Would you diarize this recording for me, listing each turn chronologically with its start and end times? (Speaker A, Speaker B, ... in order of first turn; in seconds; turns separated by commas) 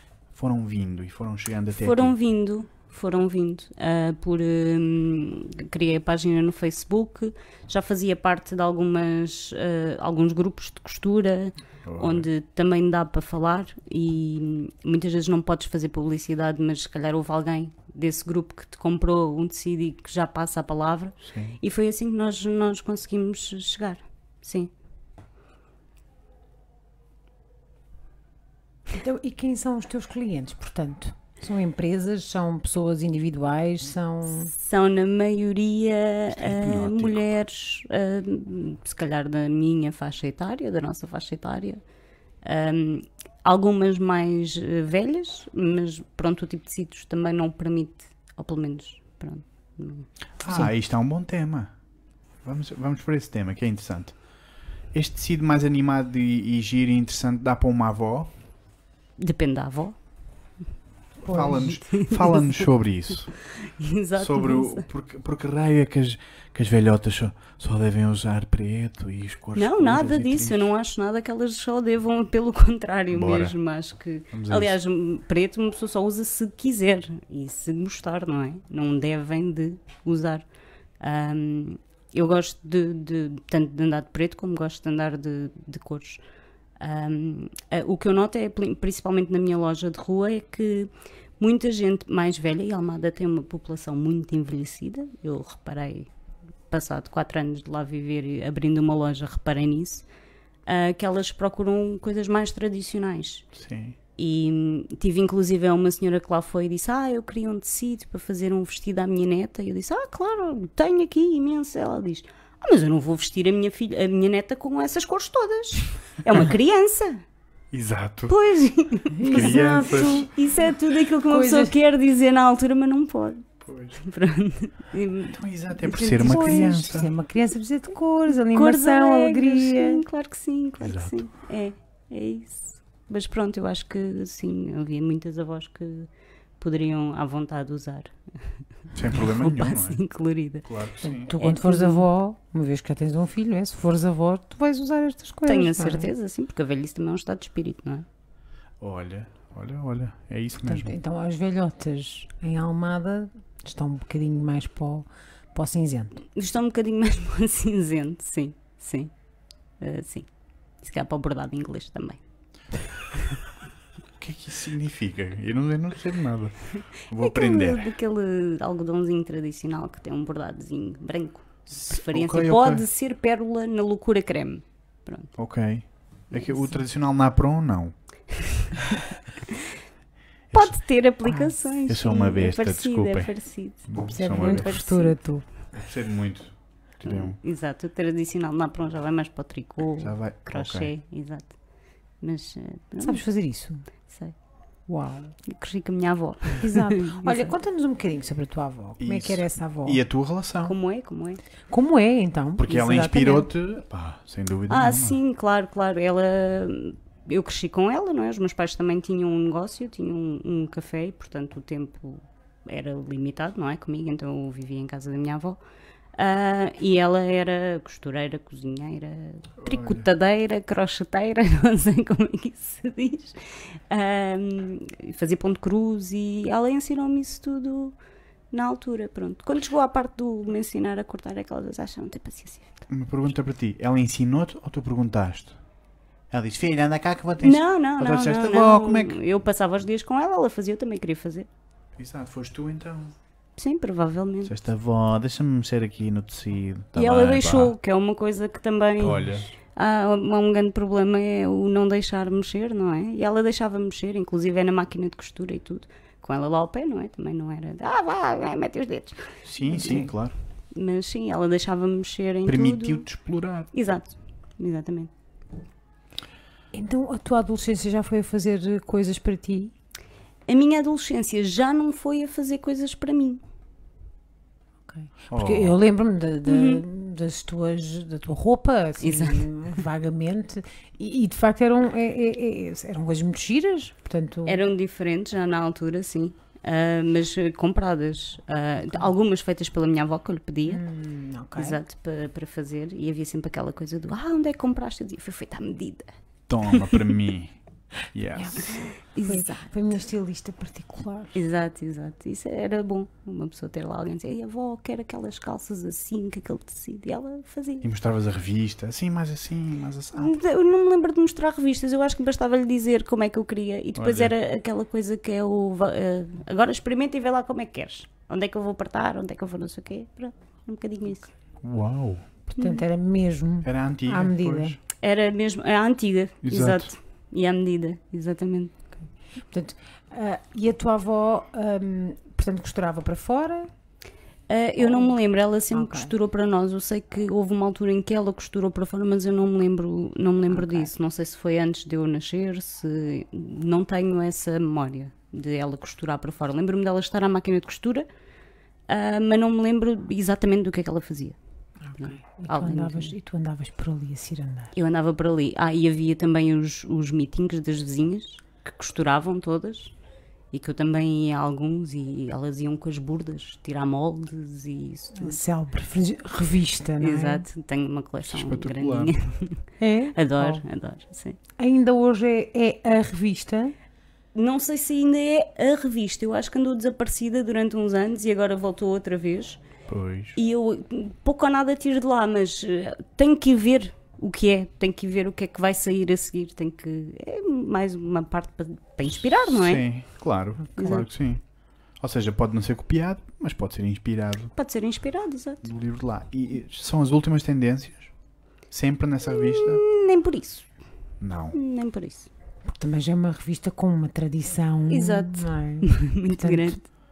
Speaker A: 0.3-2.1, Speaker B: 1.7-24.7, Speaker A: 11.8-12.3, Speaker A: 21.2-21.6, Speaker C: 28.9-34.5, Speaker B: 34.5-41.8, Speaker A: 36.3-37.3, Speaker B: 42.4-50.1, Speaker A: 50.4-51.7, Speaker A: 52.4-54.1, Speaker A: 54.9-58.3, Speaker B: 59.2-60.0, Speaker C: 61.2-61.8, Speaker A: 61.2-63.3, Speaker B: 61.8-62.6, Speaker B: 63.4-64.9, Speaker A: 64.2-70.7, Speaker B: 69.5-80.5, Speaker A: 73.1-73.5, Speaker A: 74.3-74.8, Speaker B: 81.0-86.2, Speaker B: 86.8-96.1, Speaker B: 96.7-100.0, Speaker B: 100.7-103.5, Speaker A: 103.5-104.0, Speaker B: 104.2-117.2, Speaker A: 117.7-118.3, Speaker B: 118.3-126.8, Speaker C: 119.2-120.3, Speaker A: 119.3-120.3, Speaker C: 121.2-121.7, Speaker A: 123.6-124.0, Speaker A: 125.3-127.1, Speaker C: 126.0-130.0, Speaker B: 128.5-136.1, Speaker A: 130.8-131.2, Speaker B: 136.6-138.1, Speaker A: 138.9-140.0, Speaker B: 139.1-140.7, Speaker A: 140.6-141.3, Speaker C: 141.0-146.1, Speaker B: 141.4-142.0, Speaker B: 145.4-148.1, Speaker A: 148.8-150.9, Speaker C: 150.6-156.2, Speaker B: 156.3-159.1, Speaker B: 159.8-160.3, Speaker B: 160.8-162.2, Speaker A: 164.2-167.9, Speaker B: 167.2-175.3, Speaker A: 171.7-172.8, Speaker A: 175.4-177.9, Speaker B: 178.3-178.8, Speaker B: 179.5-179.7, Speaker A: 180.5-180.8, Speaker B: 180.5-185.2, Speaker A: 181.8-183.3, Speaker A: 183.9-184.8, Speaker C: 184.1-185.4, Speaker A: 185.7-187.4, Speaker B: 187.0-191.5, Speaker A: 190.0-190.9, Speaker B: 192.2-193.2, Speaker C: 193.0-193.8, Speaker B: 194.1-194.3, Speaker C: 194.9-195.3, Speaker B: 195.4-197.5, Speaker C: 196.6-200.0, Speaker A: 199.0-200.7, Speaker B: 200.6-201.4, Speaker C: 201.7-203.5, Speaker A: 202.6-205.2, Speaker B: 204.7-215.6, Speaker B: 216.2-227.9, Speaker A: 219.6-220.1, Speaker B: 228.5-232.8, Speaker A: 232.9-235.6, Speaker A: 236.3-239.2, Speaker B: 237.4-241.5, Speaker A: 242.0-243.1, Speaker B: 243.6-244.5, Speaker A: 244.4-247.7, Speaker B: 246.9-259.3, Speaker A: 249.0-249.5, Speaker A: 259.4-260.3, Speaker C: 259.7-260.1, Speaker B: 260.7-263.1, Speaker A: 262.5-263.7, Speaker B: 263.7-265.1, Speaker C: 266.7-269.7, Speaker B: 270.5-273.4, Speaker C: 274.9-284.6, Speaker A: 275.3-275.8, Speaker B: 276.4-276.8, Speaker B: 279.0-279.5, Speaker B: 284.4-290.8, Speaker C: 290.7-291.8, Speaker B: 291.6-296.1, Speaker A: 296.5-297.6, Speaker B: 296.7-297.0, Speaker A: 298.1-298.8, Speaker C: 298.4-301.4, Speaker B: 298.7-299.7, Speaker B: 301.3-307.9, Speaker A: 307.8-310.4, Speaker B: 310.2-321.3, Speaker A: 313.9-314.3, Speaker A: 321.6-322.2, Speaker C: 322.5-324.8, Speaker B: 322.6-322.8, Speaker A: 323.6-324.8, Speaker B: 325.0-328.7, Speaker A: 326.4-326.9, Speaker C: 329.5-333.7, Speaker B: 334.5-348.1, Speaker C: 334.8-335.1, Speaker C: 335.7-336.1, Speaker C: 340.5-340.9, Speaker B: 348.9-351.4, Speaker C: 351.8-354.7, Speaker B: 352.0-353.1, Speaker B: 354.7-359.9, Speaker B: 360.5-365.4, Speaker C: 365.2-367.4, Speaker B: 367.0-369.6, Speaker A: 368.3-369.1, Speaker C: 369.8-370.6, Speaker B: 370.1-371.4, Speaker C: 371.6-373.7, Speaker B: 374.3-379.6, Speaker A: 379.9-380.4, Speaker B: 380.3-389.8, Speaker A: 389.4-391.4, Speaker B: 390.8-391.0, Speaker A: 392.0-394.5, Speaker B: 394.6-395.7, Speaker A: 395.6-398.1, Speaker A: 398.7-399.8, Speaker B: 399.3-400.7, Speaker A: 401.2-401.6, Speaker B: 401.5-402.3, Speaker C: 402.6-406.8, Speaker B: 404.9-406.8